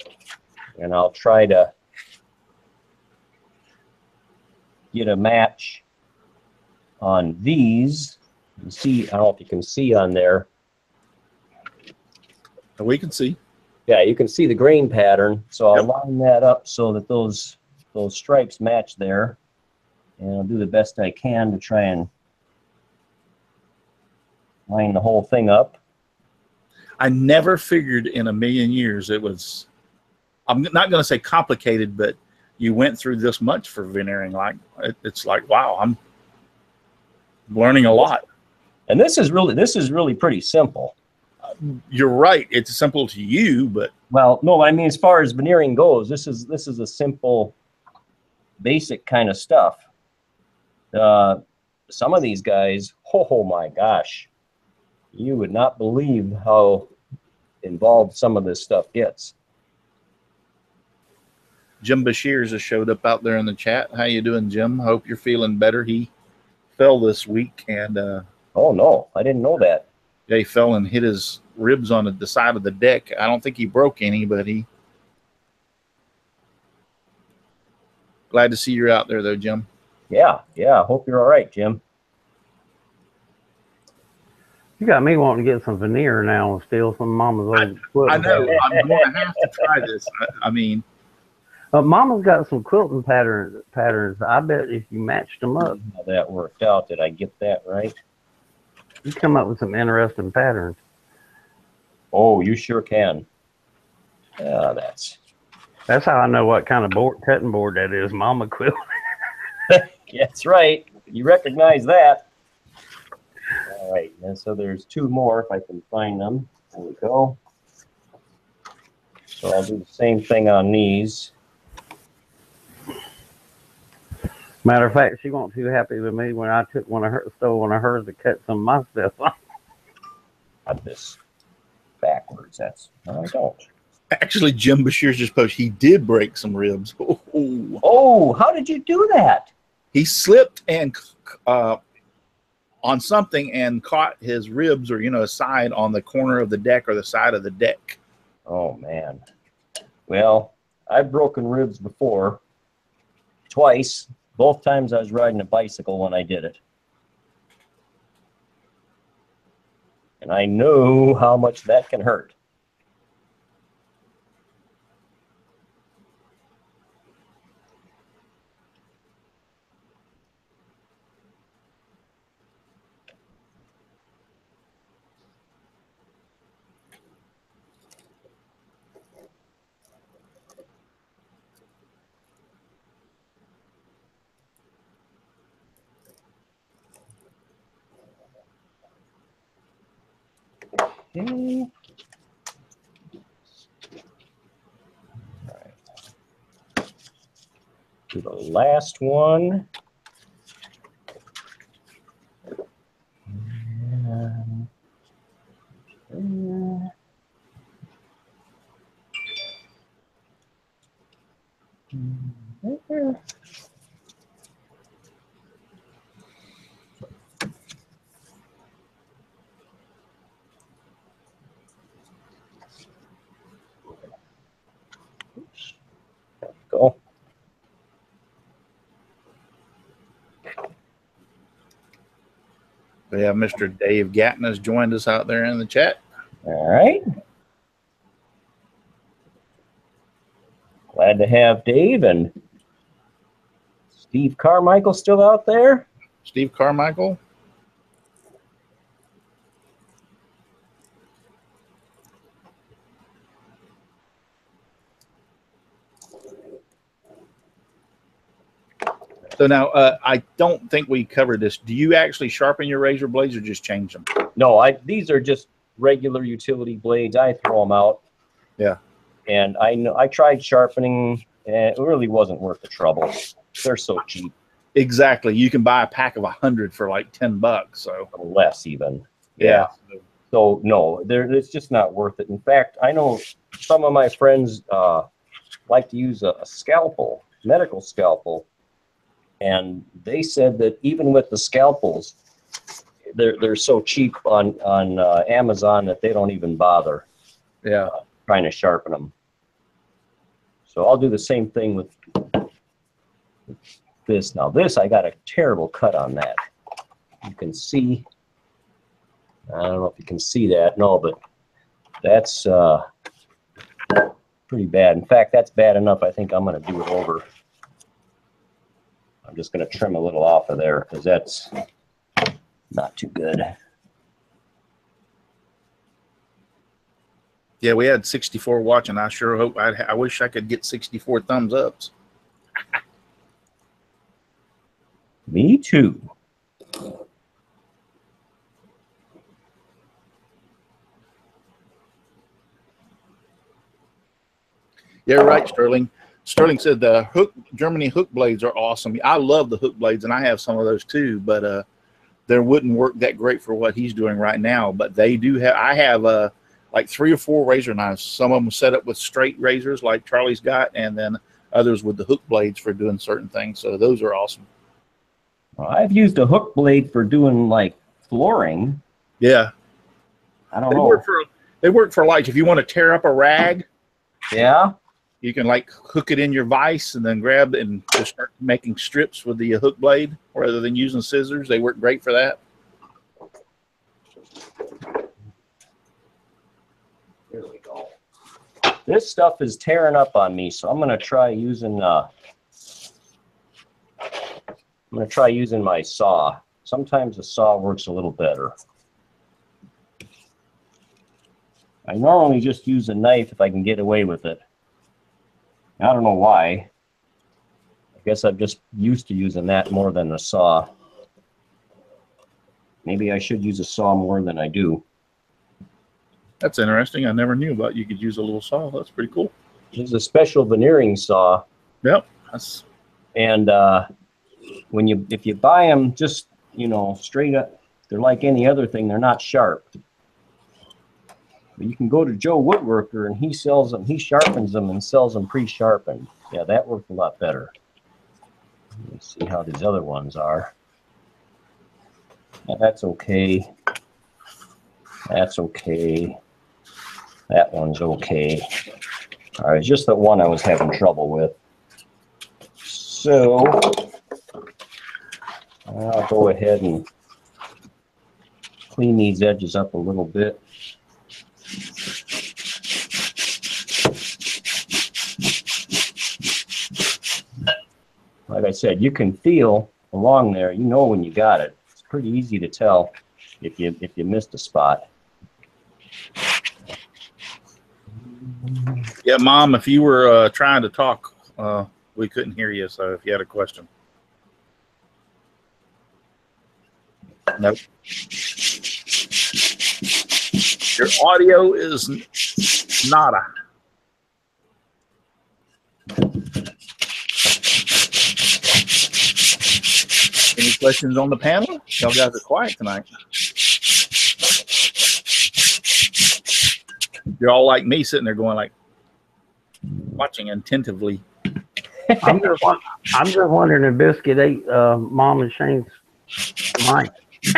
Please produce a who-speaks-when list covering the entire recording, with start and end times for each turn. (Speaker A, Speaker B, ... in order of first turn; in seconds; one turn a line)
Speaker A: 0.8-1.7
Speaker A: 4.9-5.8
Speaker A: 7.0-10.5
Speaker B: 12.8-13.4
Speaker A: 13.9-19.4
Speaker A: 20.2-22.1
Speaker A: 24.7-25.8
Speaker B: 27.0-29.7
Speaker B: 30.5-36.0
Speaker B: 37.5-38.2
Speaker A: 38.9-41.0
Speaker B: 41.5-43.9
Speaker A: 44.1-47.5
Speaker A: 48.6-49.8
Speaker A: 50.9-54.3
Speaker A: 55.1-56.9
Speaker A: 57.6-59.4
Speaker B: 61.8-66.1
Speaker B: 66.8-68.2
Speaker A: 68.5-69.9
Speaker B: 70.3-74.7
Speaker B: 78.3-79.7
Speaker A: 80.1-81.8
Speaker C: 84.8-88.7
Speaker B: 88.1-90.8
Speaker C: 91.7-95.8
Speaker A: 95.6-98.0
Speaker C: 99.0-100.8
Speaker A: 102.1-103.3
Speaker A: 104.4-105.2
Speaker C: 105.9-108.8
Speaker A: 109.7-112.2
Speaker A: 113.7-117.4
Speaker A: 119.3-121.3
Speaker C: 124.6-129.3
Speaker A: 130.7-131.2
Speaker A: 132.0-133.7
Speaker B: 134.1-137.8
Speaker A: 137.8-139.5
Speaker B: 139.9-141.8
Speaker B: 142.8-148.0
Speaker A: 148.5-149.2
Speaker A: 150.1-152.4
Speaker A: 153.5-156.6
Speaker A: 160.2-162.3
Speaker A: 191.1-191.7
Speaker A: 198.1-199.7
Speaker A: 203.3-204.7
Speaker A: 206.1-206.9
Speaker A: 211.9-213.2
Speaker A: 226.6-227.0
Speaker B: 233.1-236.0
Speaker A: 236.4-237.0
Speaker A: 240.9-242.3
Speaker A: 244.0-245.9
Speaker B: 246.2-247.2
Speaker B: 259.4-264.1
Speaker A: 264.4-268.0
Speaker A: 269.3-274.3
Speaker B: 274.7-278.1
Speaker A: 278.1-279.7
Speaker B: 279.4-280.0
Speaker A: 280.3-285.1
Speaker A: 285.7-288.4
Speaker A: 289.4-292.2
Speaker A: 293.1-297.1
Speaker B: 297.6-297.9
Speaker A: 297.9-299.1
Speaker A: 300.7-302.5
Speaker A: 304.1-306.4
Speaker A: 307.2-308.1
Speaker A: 309.5-311.2
Speaker A: 312.0-312.9
Speaker A: 314.5-317.2
Speaker A: 319.3-321.6
Speaker A: 322.7-323.5
Speaker B: 327.6-331.9
Speaker A: 335.3-336.0
Speaker B: 345.1-351.6
Speaker B: 352.3-364.5
Speaker A: 365.6-368.8
Speaker B: 369.2-369.5
Speaker A: 370.5-371.0
Speaker B: 370.7-373.7
Speaker A: 374.3-374.7
Speaker B: 375.2-382.4
Speaker A: 387.3-387.9
Speaker A: 388.9-392.1
Speaker A: 394.9-398.6
Speaker A: 401.9-404.4
Speaker A: 405.8-406.7
Speaker A: 408.0-410.7
Speaker A: 412.9-414.8
Speaker B: 416.4-419.3
Speaker A: 419.7-421.4
Speaker B: 421.8-422.6
Speaker A: 423.1-423.9
Speaker A: 424.7-429.7
Speaker A: 431.6-437.5
Speaker A: 438.8-440.5
Speaker A: 442.5-443.5
Speaker A: 445.1-446.2
Speaker A: 447.3-448.5
Speaker A: 449.4-451.4
Speaker A: 452.6-453.9
Speaker A: 455.7-456.9
Speaker A: 458.7-460.4
Speaker A: 468.3-474.9
Speaker B: 479.0-483.7
Speaker B: 487.3-487.6
Speaker B: 490.6-493.3
Speaker B: 500.3-502.9
Speaker B: 507.2-508.5
Speaker B: 509.9-511.0
Speaker C: 512.0-515.7
Speaker C: 516.5-516.9